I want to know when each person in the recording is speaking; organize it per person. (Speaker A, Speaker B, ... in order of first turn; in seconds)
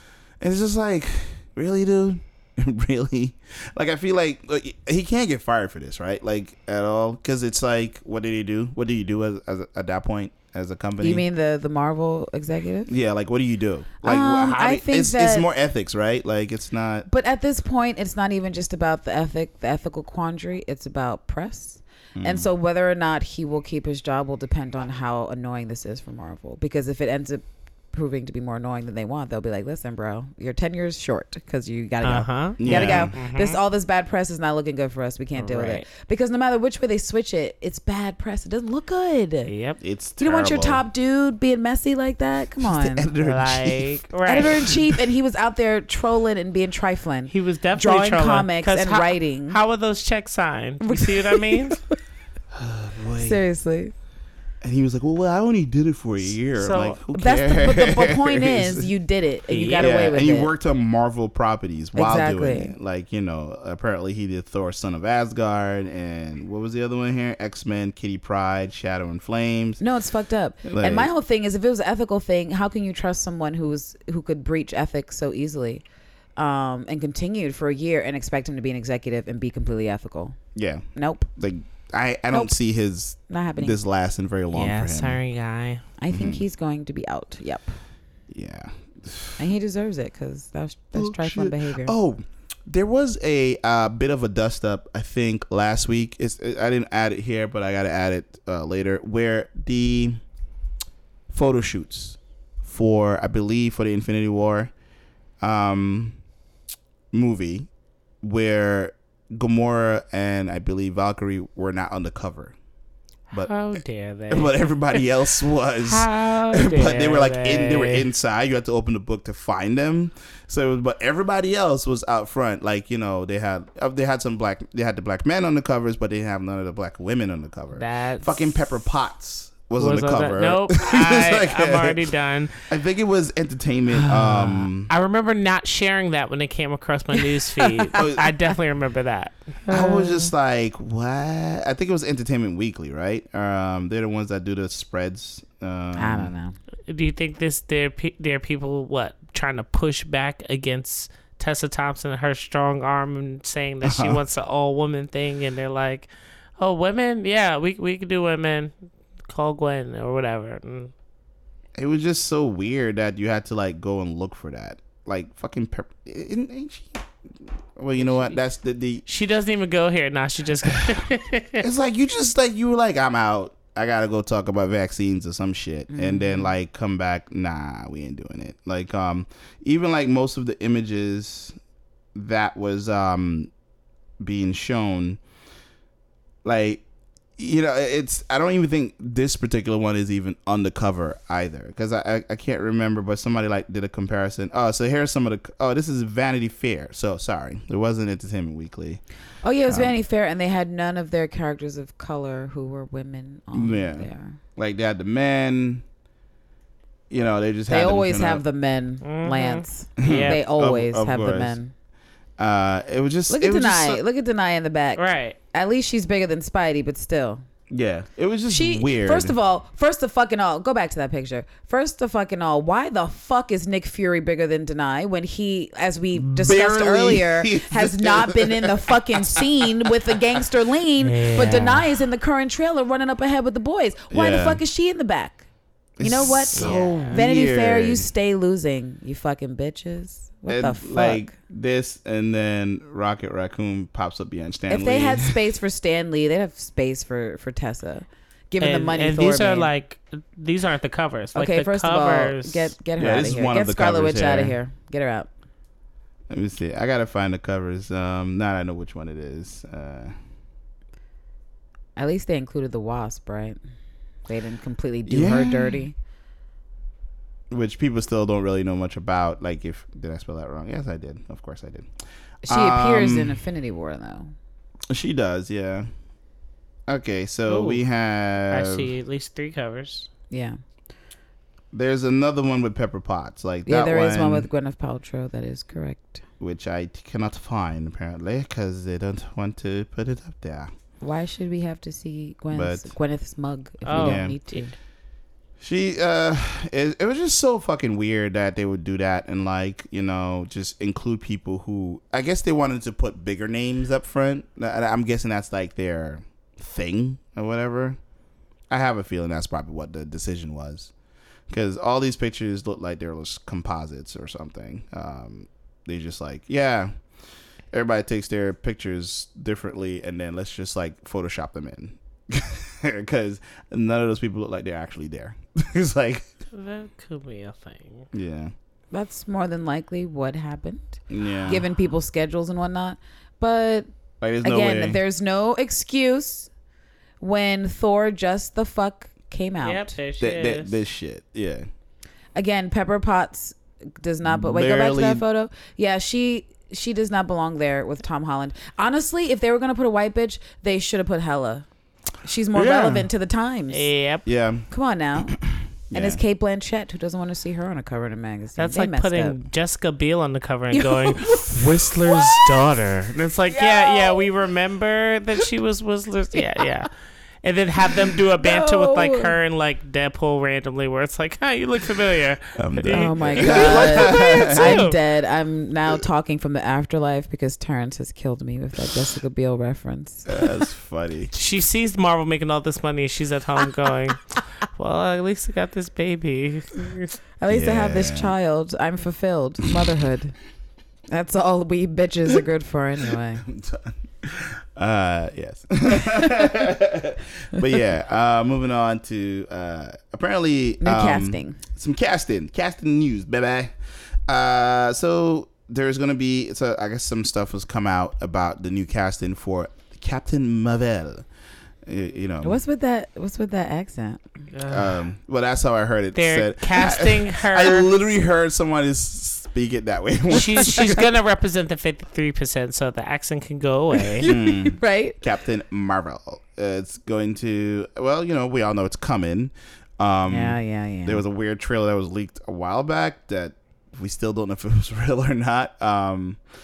Speaker A: 0.4-11.2, 12.9-17.1, 22.1-22.5, 32.6-33.1, 39.8-40.8, 42.6-45.0, 52.5-53.4, 54.6-58.9, 59.8-69.8, 70.6-71.1, 80.5-85.2, 86.1-86.4, 88.3-89.4, 91.0-100.2, 101.3-104.7, 105.4-106.2, 107.1-107.7, 108.2-112.5, 114.3-132.1, 132.7-134.9, 137.9-138.3, 139.7-146.3, 153.8-154.2, 161.8-167.0, 167.8-169.0, 170.6-171.1, 171.6-181.6, 182.1-183.5, 184.2-185.2, 186.4-186.8, 187.4-199.0, 199.7-199.9, 203.5-205.8, 207.1-208.4, 210.0-211.6, 212.4-214.0, 217.7-219.3, 226.1-230.2, 234.1-234.6, 236.0-238.1, 240.5-245.4, 253.0-254.6, 256.3-260.1, 265.1-265.8, 267.5-271.9, 272.5-273.4, 274.9-275.9, 276.9-278.9, 281.7-284.5, 286.4-290.7, 292.5-292.9, 293.9-294.4, 295.6-308.0, 308.7-310.9, 311.5-316.9, 317.7-326.3, 328.1-328.5, 331.1-331.6, 334.2-335.0, 340.2-341.6, 344.2-345.2, 352.6-353.1, 354.3-354.7, 355.2-356.2, 361.6-361.8, 372.6-374.8, 380.3-381.3, 387.5-388.3, 393.4-403.7, 404.3-411.3, 411.8-412.6, 414.6-421.1, 424.2-436.4
Speaker B: 11.0-12.9, 14.0-15.5, 17.1-39.5, 40.2-43.1, 44.3-49.6, 50.8-52.0, 53.1-53.9, 57.1-60.5, 62.0-62.7, 69.8-75.8, 76.4-80.4, 81.0-81.3, 83.3-83.8, 86.0-87.8, 89.4-91.9, 134.0-134.4, 137.1-137.9, 145.9-146.6, 175.9-176.5, 199.4-204.4, 207.7-211.7, 213.3-217.4, 218.5-235.5, 236.0-241.3, 244.7-249.7, 251.3-255.3, 261.9-263.6, 264.3-265.9, 272.4-274.3, 280.3-280.6, 283.7-286.2, 291.0-294.7, 328.9-333.9, 334.4-336.5, 337.2-340.0, 342.4-351.7, 352.2-353.9, 354.7-355.4, 355.9-359.4, 360.7-362.4, 363.5-364.3, 368.4-369.3, 372.9-380.4, 387.4-390.4, 391.1-393.4, 400.8-401.6, 412.4-414.2, 420.6-421.0, 424.1-425.2, 430.3-431.2
Speaker C: 32.0-33.6, 35.4-35.8, 39.5-39.8, 43.2-44.8, 47.3-51.8, 56.6-57.0, 59.5-60.0, 84.5-85.8, 113.3-115.1, 115.8-118.1, 127.8-128.6, 129.8-132.6, 134.4-140.3, 146.9-158.7, 159.3-160.9, 169.1-171.7, 209.0-210.4, 214.9-215.4, 231.0-231.9, 236.5-237.2, 248.6-252.7, 277.5-277.8, 278.5-280.1, 293.8-294.7, 326.5-328.1, 339.6-340.8, 353.7-354.3, 358.6-366.9, 367.4-375.0, 381.3-387.2, 414.5-415.0, 416.1-417.9, 420.3-424.3